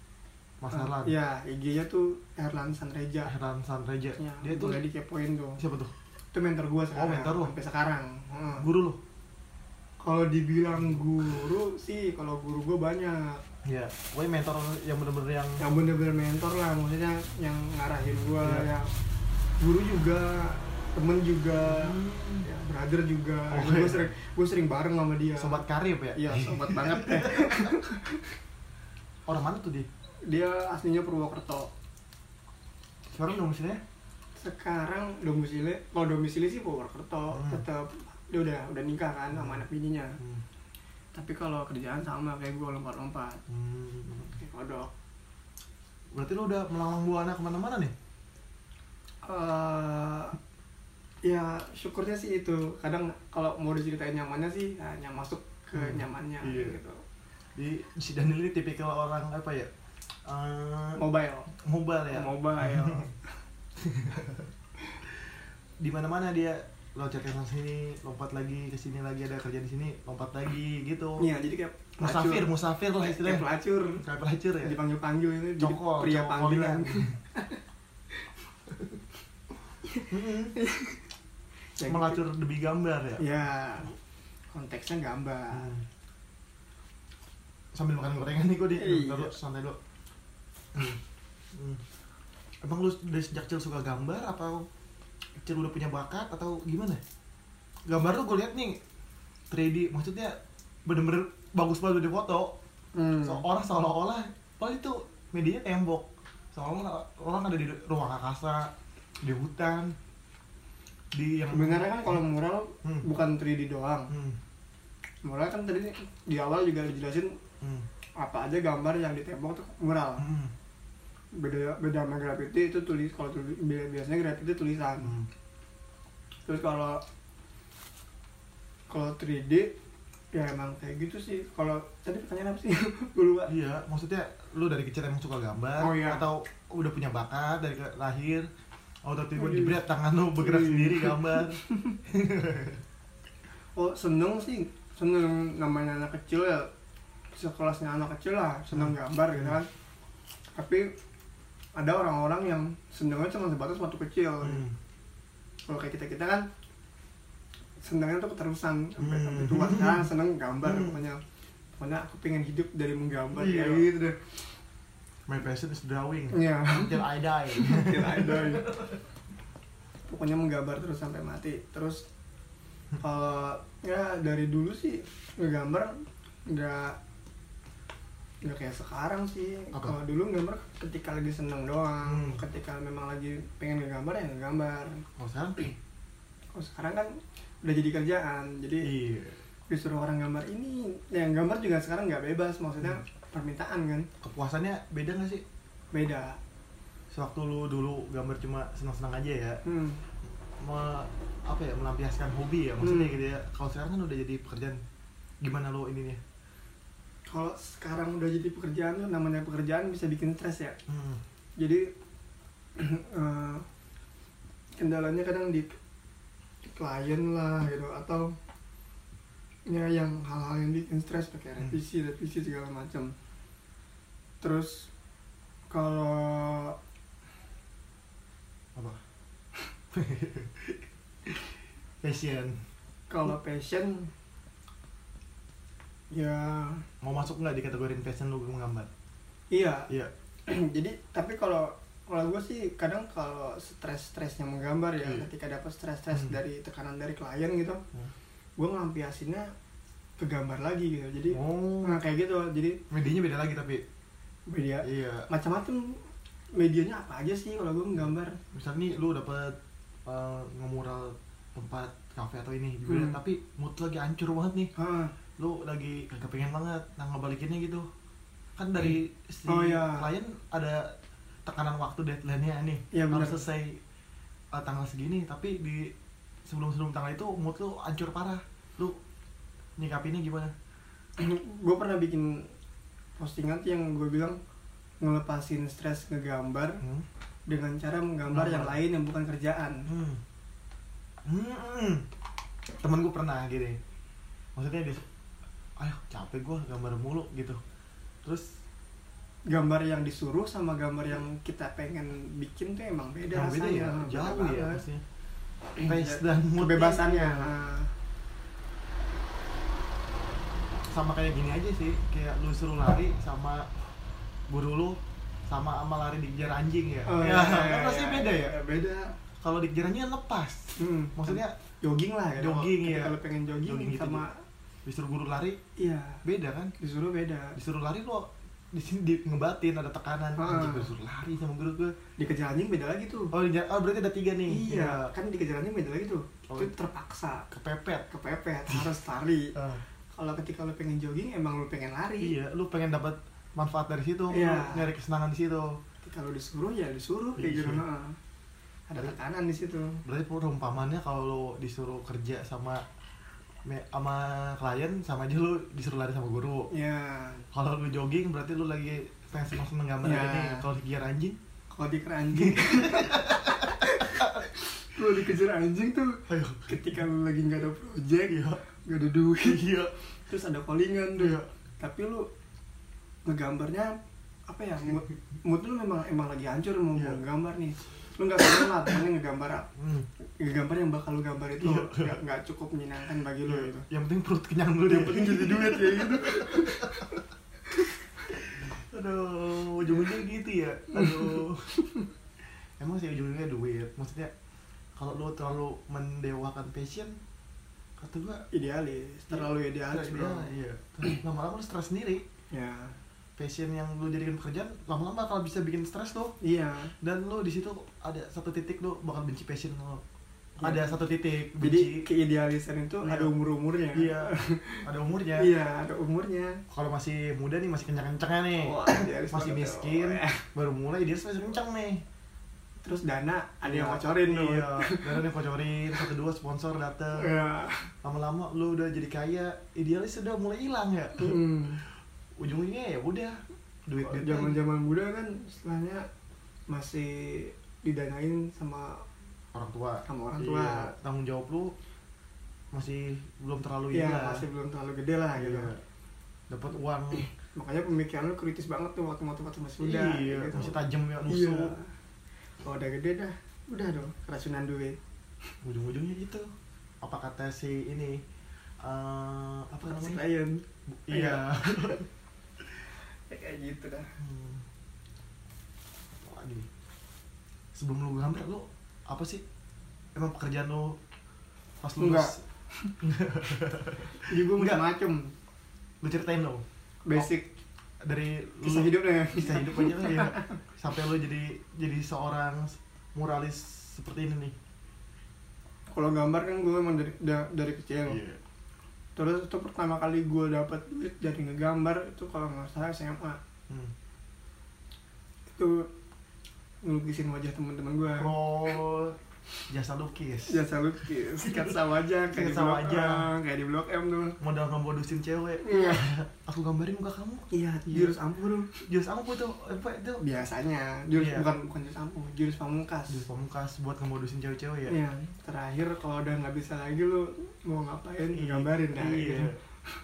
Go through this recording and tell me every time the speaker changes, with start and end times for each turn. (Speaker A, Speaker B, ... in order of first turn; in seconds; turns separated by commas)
Speaker A: 0.6-1.1, Speaker B: 0.7-3.3, Speaker A: 3.2-4.8, Speaker B: 4.2-5.6, Speaker A: 5.6-5.9, Speaker B: 6.3-8.7, Speaker A: 6.9-7.5, Speaker A: 8.6-9.0, Speaker B: 10.0-13.4, Speaker A: 10.8-11.0, Speaker A: 13.6-15.6, Speaker B: 15.6-18.9, Speaker A: 18.4-18.7, Speaker B: 19.6-25.6, Speaker A: 21.6-22.4, Speaker A: 23.5-24.1, Speaker A: 25.4-27.7, Speaker B: 26.1-28.3, Speaker A: 29.3-29.9, Speaker B: 30.3-31.7, Speaker A: 33.1-33.8, Speaker B: 34.4-40.2, Speaker A: 37.3-37.6, Speaker A: 39.3-39.6, Speaker B: 41.1-43.4, Speaker A: 43.5-44.4, Speaker B: 44.4-44.9, Speaker A: 46.1-47.9, Speaker B: 49.2-50.4, Speaker B: 51.2-57.0, Speaker A: 55.7-56.8, Speaker A: 57.5-59.7, Speaker A: 60.2-63.1, Speaker B: 61.0-61.5, Speaker B: 62.1-63.1, Speaker A: 63.8-64.5, Speaker A: 65.8-71.3, Speaker B: 71.2-74.0, Speaker A: 72.0-74.8, Speaker B: 74.6-77.6, Speaker A: 75.6-77.2, Speaker B: 79.8-81.0, Speaker A: 80.1-80.5, Speaker B: 81.8-82.2, Speaker A: 81.8-83.2, Speaker B: 83.2-84.0, Speaker B: 84.5-85.8, Speaker A: 85.5-85.8, Speaker A: 87.7-89.8, Speaker B: 88.8-89.3, Speaker A: 90.7-91.0, Speaker A: 91.5-91.8, Speaker A: 92.6-94.7, Speaker A: 95.3-97.0, Speaker A: 97.9-98.8, Speaker A: 99.5-102.6, Speaker B: 102.9-103.5, Speaker A: 103.2-109.9, Speaker A: 111.1-112.2, Speaker B: 111.5-114.1, Speaker A: 114.1-114.4, Speaker B: 115.2-117.4, Speaker A: 117.6-117.8, Speaker B: 118.2-120.3, Speaker A: 120.2-120.5, Speaker B: 121.3-125.2, Speaker A: 125.0-125.3, Speaker B: 126.5-127.0, Speaker B: 128.9-129.7, Speaker B: 130.3-133.5, Speaker A: 133.5-138.5, Speaker B: 135.8-136.2, Speaker A: 139.0-142.8, Speaker B: 139.4-139.8, Speaker B: 140.4-142.0, Speaker B: 143.8-146.7, Speaker B: 147.3-149.7, Speaker A: 148.7-149.6, Speaker B: 150.5-150.9, Speaker B: 151.8-154.7, Speaker A: 154.4-154.8, Speaker B: 155.6-156.5, Speaker B: 157.8-161.2, Speaker A: 159.0-160.1, Speaker A: 160.6-161.0, Speaker B: 161.8-164.4, Speaker A: 163.3-163.9, Speaker A: 165.3-169.0, Speaker B: 166.3-168.8, Speaker B: 170.1-172.0, Speaker B: 173.0-175.9, Speaker B: 176.5-177.0, Speaker B: 178.4-185.0, Speaker A: 182.0-182.4, Speaker A: 185.2-185.7, Speaker B: 186.5-188.9, Speaker A: 188.8-189.4, Speaker B: 189.7-194.1, Speaker A: 194.2-195.4, Speaker B: 195.9-196.4, Speaker A: 197.1-199.6, Speaker B: 199.6-200.0, Speaker A: 200.6-204.8, Speaker B: 202.8-203.2, Speaker A: 205.4-206.2, Speaker B: 207.3-210.8, Speaker A: 210.9-211.2, Speaker B: 211.6-211.9, Speaker B: 212.8-213.6, Speaker B: 214.8-215.7, Speaker B: 216.7-218.3, Speaker B: 219.7-223.1, Speaker B: 224.4-224.9, Speaker B: 225.7-226.8, Speaker A: 228.7-229.0, Speaker A: 229.9-231.5, Speaker A: 232.0-232.6, Speaker B: 233.1-234.1, Speaker B: 236.1-236.8, Speaker A: 237.0-238.9, Speaker B: 239.5-239.9, Speaker B: 240.5-247.8, Speaker A: 245.0-245.3, Speaker A: 246.1-246.4, Speaker B: 248.6-249.5, Speaker B: 250.2-252.8, Speaker A: 251.3-252.0, Speaker A: 252.9-253.8, Speaker B: 254.5-256.0, Speaker A: 254.8-255.3, Speaker B: 256.5-258.4, Speaker A: 258.5-264.7, Speaker B: 262.9-263.2, Speaker B: 264.8-265.1, Speaker A: 265.4-267.9, Speaker A: 268.6-270.9, Speaker B: 269.5-270.1, Speaker A: 271.4-273.8, Speaker B: 272.9-273.4, Speaker A: 274.5-275.9, Speaker A: 276.5-279.0, Speaker A: 279.8-280.5, Speaker B: 281.2-282.5, Speaker B: 283.2-284.4, Speaker B: 285.0-286.8, Speaker A: 286.8-287.1, Speaker B: 287.5-289.9, Speaker A: 288.3-288.8, Speaker A: 289.9-290.2, Speaker A: 291.2-292.0, Speaker A: 292.8-293.8, Speaker A: 294.6-295.0, Speaker A: 295.8-297.6, Speaker B: 299.5-304.8, Speaker A: 303.3-305.0, Speaker B: 305.8-307.9, Speaker A: 305.8-307.5, Speaker A: 310.9-313.8, Speaker A: 314.5-318.5, Speaker B: 317.1-319.1, Speaker A: 319.4-321.6, Speaker B: 320.8-324.4, Speaker A: 322.4-324.2, Speaker A: 324.9-325.6, Speaker B: 325.8-326.2, Speaker A: 326.2-326.7, Speaker B: 326.8-327.6, Speaker A: 327.6-332.0, Speaker B: 330.4-330.9, Speaker B: 332.2-333.3, Speaker A: 333.3-335.1, Speaker B: 334.5-337.5, Speaker A: 337.5-338.1, Speaker B: 338.1-339.5, Speaker A: 339.5-339.8, Speaker B: 340.1-342.3, Speaker A: 342.2-345.8, Speaker B: 344.3-344.9, Speaker B: 346.0-348.2, Speaker A: 347.4-347.8, Speaker B: 348.9-350.0, Speaker A: 350.0-352.8, Speaker A: 353.6-356.7, Speaker B: 356.7-357.5, Speaker A: 357.5-361.4, Speaker B: 360.0-360.6, Speaker B: 361.7-369.6, Speaker A: 362.3-364.5, Speaker A: 366.3-366.8, Speaker A: 368.3-368.6, Speaker A: 369.4-369.9, Speaker B: 370.3-372.3, Speaker A: 371.1-371.5, Speaker B: 373.2-373.9, Speaker B: 374.5-379.7, Speaker A: 376.9-377.2, Speaker A: 379.8-380.1, Speaker B: 380.4-383.9, Speaker A: 381.6-382.2, Speaker A: 383.4-387.1, Speaker B: 384.9-387.2, Speaker A: 388.3-391.7, Speaker B: 390.9-392.1, Speaker A: 392.8-394.3, Speaker A: 395.0-397.2, Speaker A: 398.0-398.5, Speaker B: 398.5-400.5, Speaker A: 399.3-402.2, Speaker B: 402.5-403.0, Speaker A: 403.4-406.3, Speaker B: 406.4-406.9, Speaker A: 407.0-410.0, Speaker B: 410.6-411.0, Speaker A: 410.6-412.1, Speaker B: 411.6-414.8, Speaker A: 413.0-413.3, Speaker A: 413.9-414.3, Speaker A: 414.8-415.5, Speaker B: 415.4-416.6, Speaker A: 416.7-422.0, Speaker B: 418.6-420.4, Speaker B: 422.8-425.3, Speaker A: 423.6-427.3, Speaker B: 427.1-427.9, Speaker A: 428.0-431.4, Speaker B: 431.2-431.8, Speaker A: 432.4-434.6, Speaker B: 434.0-436.1, Speaker B: 436.7-439.0, Speaker A: 439.5-441.7, Speaker B: 440.1-440.9, Speaker A: 442.7-444.4, Speaker B: 443.9-445.7, Speaker A: 445.4-445.8, Speaker A: 446.5-447.3, Speaker B: 447.1-451.9, Speaker A: 449.8-451.7, Speaker B: 452.6-455.0, Speaker A: 455.6-458.2, Speaker A: 458.8-460.2, Speaker B: 459.8-462.0, Speaker A: 461.1-462.1, Speaker B: 463.3-464.1, Speaker A: 464.2-464.6, Speaker A: 466.2-466.7, Speaker A: 467.7-469.4, Speaker A: 470.1-471.0, Speaker A: 471.8-472.4, Speaker B: 472.0-472.9, Speaker A: 473.0-474.8, Speaker B: 474.2-475.3, Speaker A: 476.0-477.3, Speaker B: 477.0-477.5, Speaker A: 478.0-484.6, Speaker B: 478.6-480.5, Speaker B: 485.9-488.2, Speaker A: 488.1-488.4, Speaker B: 489.1-493.4, Speaker B: 495.5-495.9, Speaker B: 496.8-498.8, Speaker A: 498.2-499.2, Speaker A: 499.7-500.6, Speaker B: 500.5-504.4, Speaker A: 501.4-501.8, Speaker A: 502.3-503.3, Speaker A: 504.4-508.2, Speaker B: 505.6-506.1, Speaker B: 507.5-508.9, Speaker A: 508.8-510.2, Speaker B: 510.2-513.2, Speaker A: 511.1-511.5, Speaker A: 513.1-515.0, Speaker B: 514.9-519.5, Speaker A: 518.3-519.6